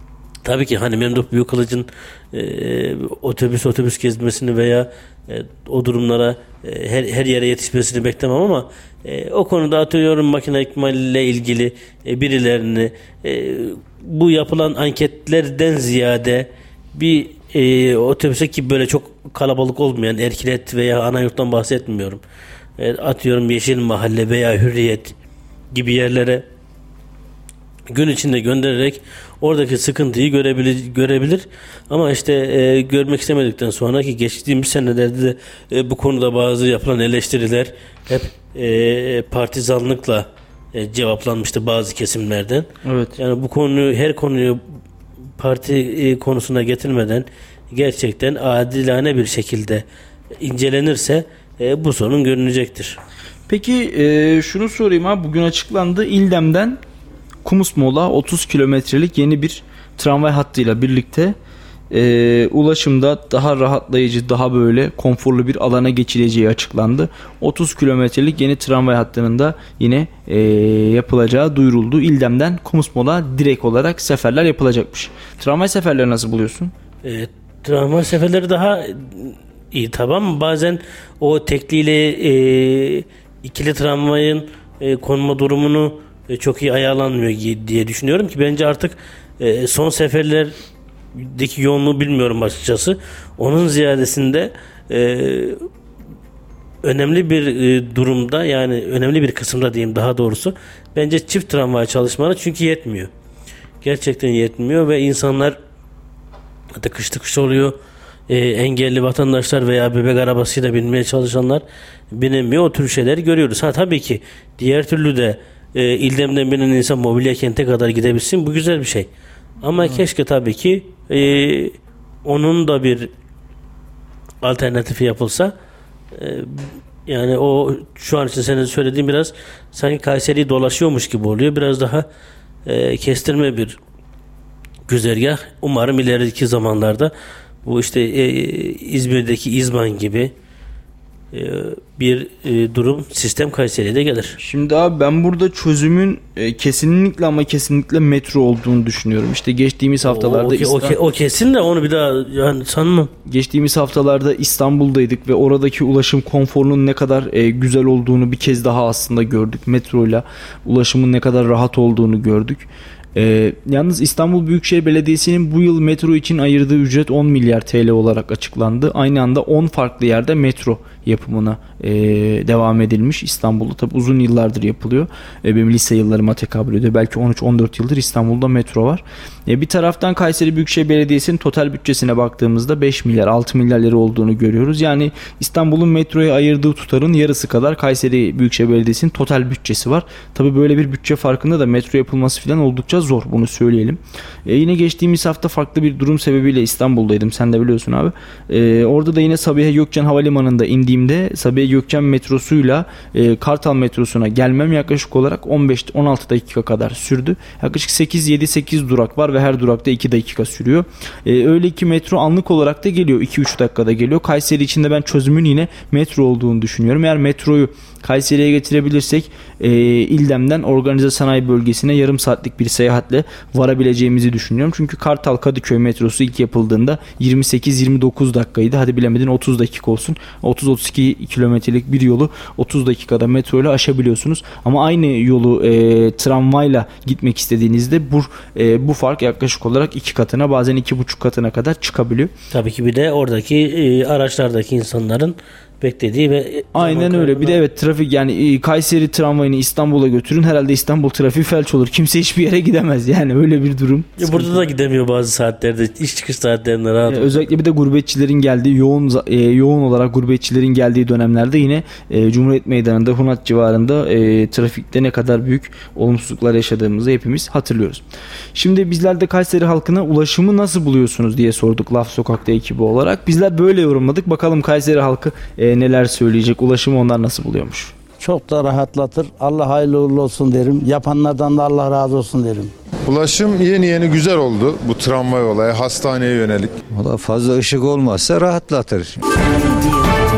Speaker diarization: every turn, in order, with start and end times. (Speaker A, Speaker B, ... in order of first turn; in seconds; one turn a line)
Speaker A: 0.4-22.2
Speaker A: 22.8-25.1
Speaker A: 25.7-26.4
Speaker A: 27.9-44.6
Speaker B: 42.8-43.2
Speaker A: 45.4-49.8
Speaker A: 50.4-53.0
Speaker B: 53.5-56.8
Speaker B: 57.4-61.4
Speaker B: 61.9-76.7
Speaker A: 77.0-90.5
Speaker A: 91.1-95.6
Speaker A: 96.8-103.1
Speaker A: 103.8-105.5
Speaker A: 106.7-107.8
Speaker A: 108.3-119.1
Speaker A: 119.6-123.1
Speaker B: 119.8-120.0
Speaker A: 124.4-125.5
Speaker A: 126.1-132.0
Speaker A: 132.6-133.8
Speaker A: 134.9-137.1
Speaker A: 137.6-140.3
Speaker A: 141.3-144.4
Speaker B: 144.4-151.0
Speaker A: 150.0-153.1
Speaker B: 153.2-242.3
Speaker A: 242.5-247.6
Speaker B: 246.7-254.6
Speaker A: 254.2-257.4
Speaker B: 257.1-268.0
Speaker B: 268.5-277.9
Speaker C: 278.2-282.7
Speaker D: 283.1-286.8
Speaker E: 286.9-289.1